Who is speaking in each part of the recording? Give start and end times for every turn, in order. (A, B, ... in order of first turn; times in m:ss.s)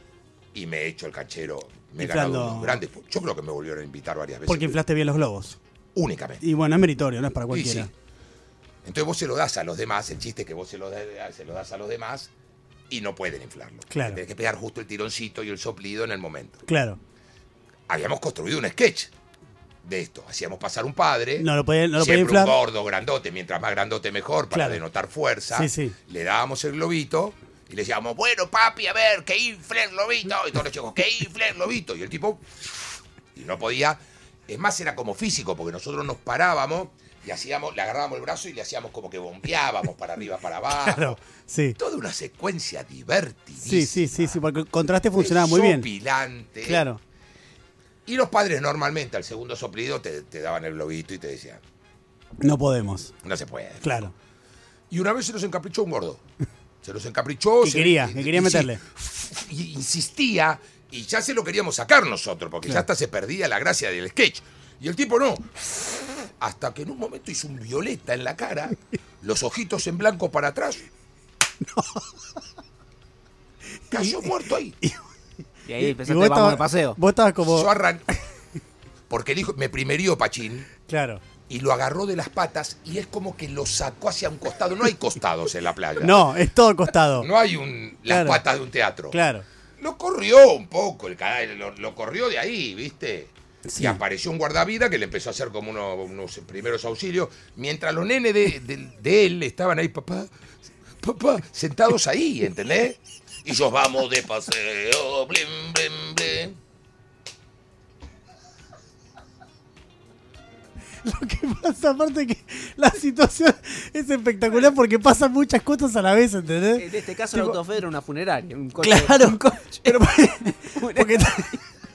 0:00.5-0:04.7 A
0:02.0-0:02.8 B
0:04.5-0:05.6 B
0:05.9-0:06.4 A
0:06.4-0:07.9 B
0:07.5-0:07.9 A
0:08.8-0:12.3 A
0:12.9-0:16.6 A
0:13.9-0:14.2 B
0:16.6-0:17.0 B
0:17.9-0:19.1 A
0:19.8-0:41.2 A
0:21.4-0:22.6 B
0:24.5-0:24.8 B
0:25.5-0:25.9 B
0:40.7-0:41.8 B
0:41.8-0:44.4 A
0:43.6-0:45.9 B
0:45.2-0:46.8 A
0:46.6-0:47.0 B
0:48.0-0:51.6 A
0:52.4-0:53.1 B
0:53.2-0:54.1 A
0:53.8-0:54.1 B
0:54.9-0:56.2 A
0:56.8-1:10.8 A
0:57.6-0:58.8 B
1:11.6-1:12.1 B
1:13.9-1:14.8 A
1:13.9-1:14.3 B
1:15.6-1:17.0 C
1:15.8-1:17.7 B
1:17.4-1:18.1 A
1:19.1-1:20.7 A
1:20.9-1:21.2 B
1:21.5-1:26.3 A
1:26.0-1:27.3 B
1:27.2-1:29.2 A
1:28.1-1:28.4 B
1:29.1-1:29.4 B
1:29.8-1:40.3 A
1:33.6-1:34.0 B
1:41.0-1:46.6 A
1:51.0-1:57.6 B
1:56.8-2:00.0 C
1:58.8-2:01.6 B
2:00.8-2:01.6 C